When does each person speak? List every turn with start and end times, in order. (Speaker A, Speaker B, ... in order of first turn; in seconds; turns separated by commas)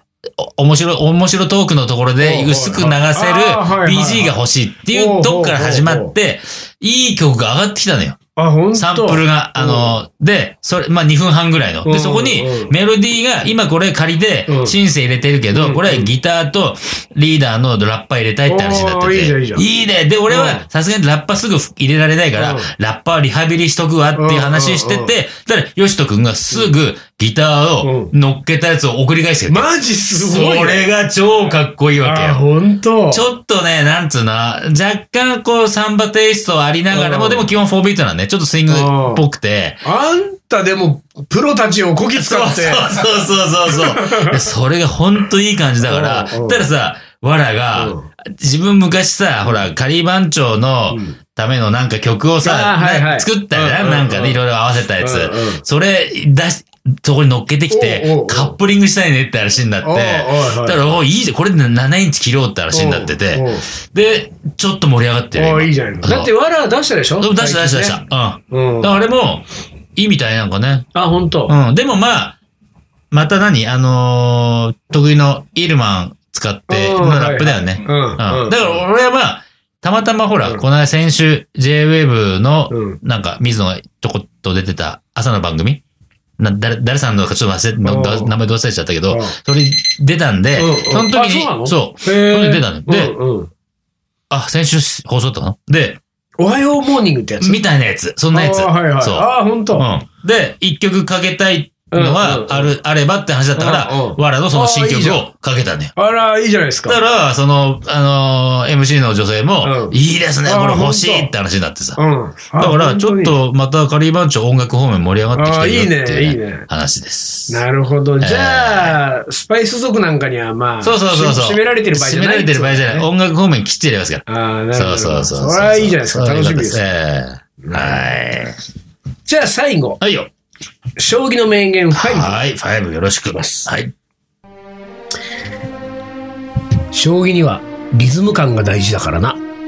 Speaker A: 0.4-8.2, Speaker B: 2.2-4.4, Speaker B: 4.9-6.2, Speaker B: 8.4-10.0, Speaker A: 8.7-32.4, Speaker B: 11.8-12.7, Speaker B: 14.5-14.8, Speaker B: 15.5-16.1, Speaker B: 18.5-19.6, Speaker B: 20.3-20.7, Speaker B: 22.4-22.7, Speaker B: 24.1-25.1, Speaker B: 27.8-28.1, Speaker B: 29.5-30.9, Speaker B: 32.0-33.3, Speaker A: 33.1-39.8, Speaker B: 36.9-37.5, Speaker B: 38.7-39.2, Speaker B: 39.8-43.1, Speaker A: 42.1-66.3, Speaker B: 43.6-44.4, Speaker B: 45.8-46.7, Speaker B: 47.8-48.1, Speaker B: 50.9-51.2, Speaker B: 52.4-54.4, Speaker B: 55.0-55.6, Speaker B: 57.7-58.6, Speaker B: 59.8-60.8, Speaker B: 62.7-63.7, Speaker B: 65.4-69.0, Speaker A: 67.2-70.9, Speaker B: 70.9-71.5, Speaker A: 71.5-72.4, Speaker A: 73.1-85.8, Speaker B: 76.7-78.9, Speaker B: 82.7-83.0, Speaker A: 86.4-93.2, Speaker B: 87.8-88.3, Speaker B: 89.1-89.4, Speaker B: 90.6-93.5, Speaker A: 94.3-96.0, Speaker B: 96.4-97.6, Speaker A: 97.4-105.9, Speaker B: 98.3-99.9, Speaker B: 101.9-102.7, Speaker B: 103.6-105.3, Speaker B: 106.0-107.0, Speaker A: 106.9-112.0, Speaker B: 109.6-111.3, Speaker B: 112.0-113.3, Speaker A: 112.6-117.6, Speaker B: 115.3-116.7, Speaker B: 117.5-123.1, Speaker A: 118.2-119.0, Speaker A: 120.8-128.6, Speaker B: 124.3-126.8, Speaker B: 127.6-128.2, Speaker B: 129.3-130.0, Speaker A: 130.0-130.3, Speaker B: 131.0-132.4, Speaker A: 131.9-133.9, Speaker B: 133.3-133.7, Speaker B: 136.9-139.4